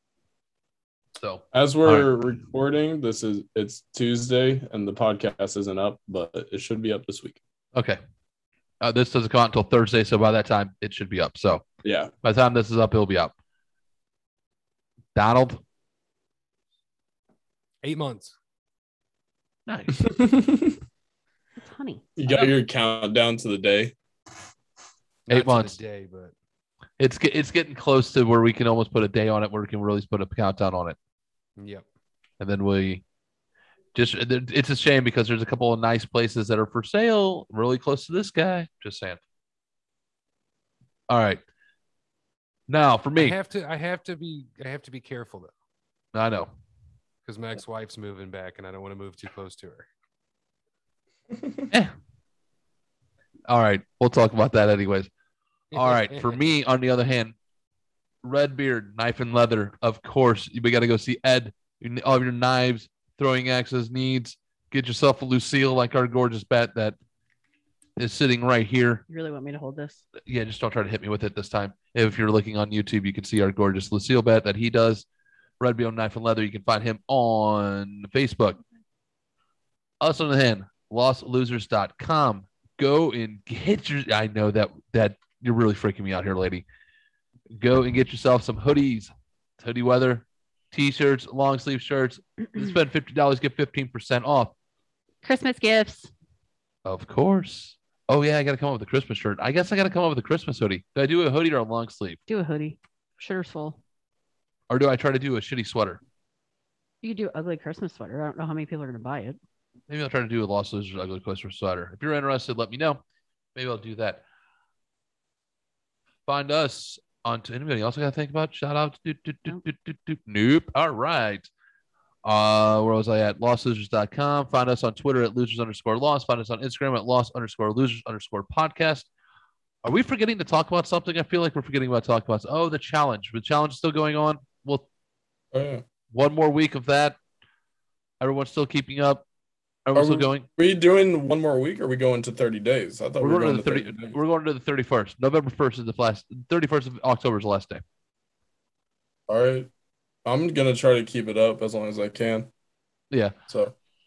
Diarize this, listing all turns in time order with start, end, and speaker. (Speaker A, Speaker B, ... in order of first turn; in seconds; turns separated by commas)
Speaker A: 1.1-2.1, Speaker B: 1.5-7.4, Speaker A: 8.8-11.7, Speaker B: 11.8-12.1, Speaker A: 12.2-13.3, Speaker A: 15.1-15.6, Speaker C: 17.8-18.3, Speaker A: 19.7-20.1, Speaker B: 20.0-20.7, Speaker D: 21.6-22.5, Speaker B: 22.2-23.9, Speaker C: 25.2-26.3, Speaker A: 25.3-25.8, Speaker A: 27.0-31.0, Speaker C: 31.6-31.8, Speaker A: 32.4-33.0, Speaker A: 33.9-39.2, Speaker A: 41.1-41.4, Speaker A: 42.7-43.4, Speaker C: 43.1-45.5, Speaker A: 46.1-46.5, Speaker C: 47.2-49.9, Speaker A: 53.5-55.1, Speaker A: 55.7-57.4, Speaker C: 55.7-56.4, Speaker A: 58.2-67.0, Speaker A: 68.0-69.0, Speaker D: 69.1-70.0, Speaker A: 70.2-75.0, Speaker A: 75.6-78.6, Speaker A: 80.0-86.6, Speaker A: 87.5-94.5, Speaker D: 95.2-96.1, Speaker A: 96.8-102.2, Speaker D: 102.3-103.8, Speaker A: 104.7-106.0, Speaker D: 107.0-109.4, Speaker A: 109.9-113.0, Speaker A: 113.5-114.2, Speaker A: 116.3-121.5, Speaker A: 122.2-129.1, Speaker A: 129.8-134.8, Speaker B: 135.5-135.8, Speaker A: 136.1-137.2, Speaker A: 138.2-139.2, Speaker A: 139.8-140.4, Speaker B: 139.9-144.2, Speaker A: 143.2-147.8, Speaker B: 149.3-149.7, Speaker B: 150.2-152.5, Speaker B: 153.5-153.7